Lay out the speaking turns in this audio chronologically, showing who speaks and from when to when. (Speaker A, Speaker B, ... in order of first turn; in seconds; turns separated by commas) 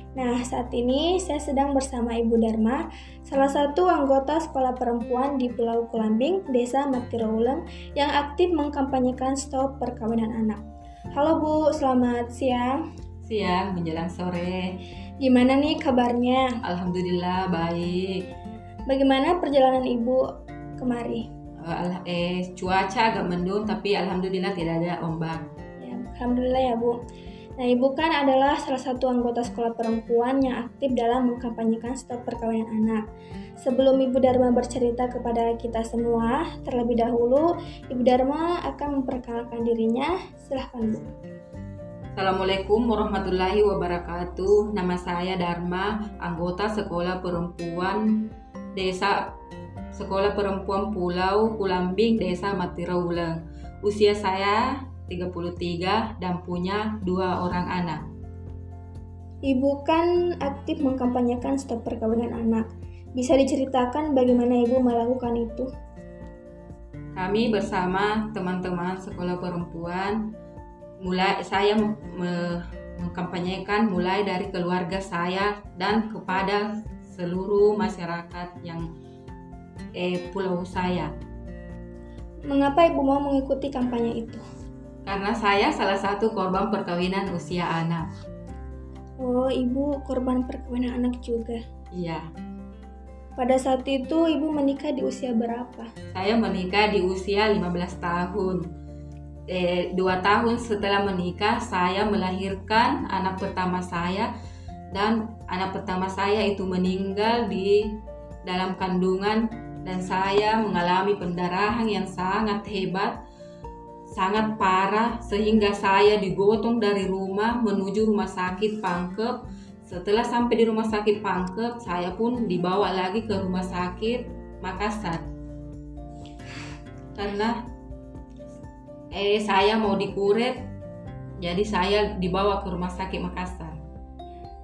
Speaker A: 0.1-10.6, Speaker A: 11.1-12.8, Speaker B: 13.2-14.6, Speaker A: 15.2-16.6, Speaker B: 16.6-18.2, Speaker A: 18.9-20.2, Speaker A: 20.8-21.2, Speaker B: 21.6-25.4, Speaker A: 25.8-26.9, Speaker A: 27.6-33.0, Speaker A: 33.6-41.1, Speaker B: 42.1-49.3, Speaker B: 49.9-58.0, Speaker A: 59.5-65.7, Speaker B: 67.2-70.3, Speaker B: 71.0-78.8, Speaker B: 80.0-81.1, Speaker A: 82.5-84.4, Speaker B: 85.0-88.0, Speaker A: 89.2-91.6, Speaker B: 91.9-92.2, Speaker A: 93.4-95.9, Speaker B: 96.1-98.6, Speaker B: 99.5-104.3, Speaker B: 104.9-113.2, Speaker B: 114.1-119.3, Speaker B: 119.8-125.2, Speaker B: 127.2-127.6, Speaker B: 129.1-130.6, Speaker B: 131.4-133.8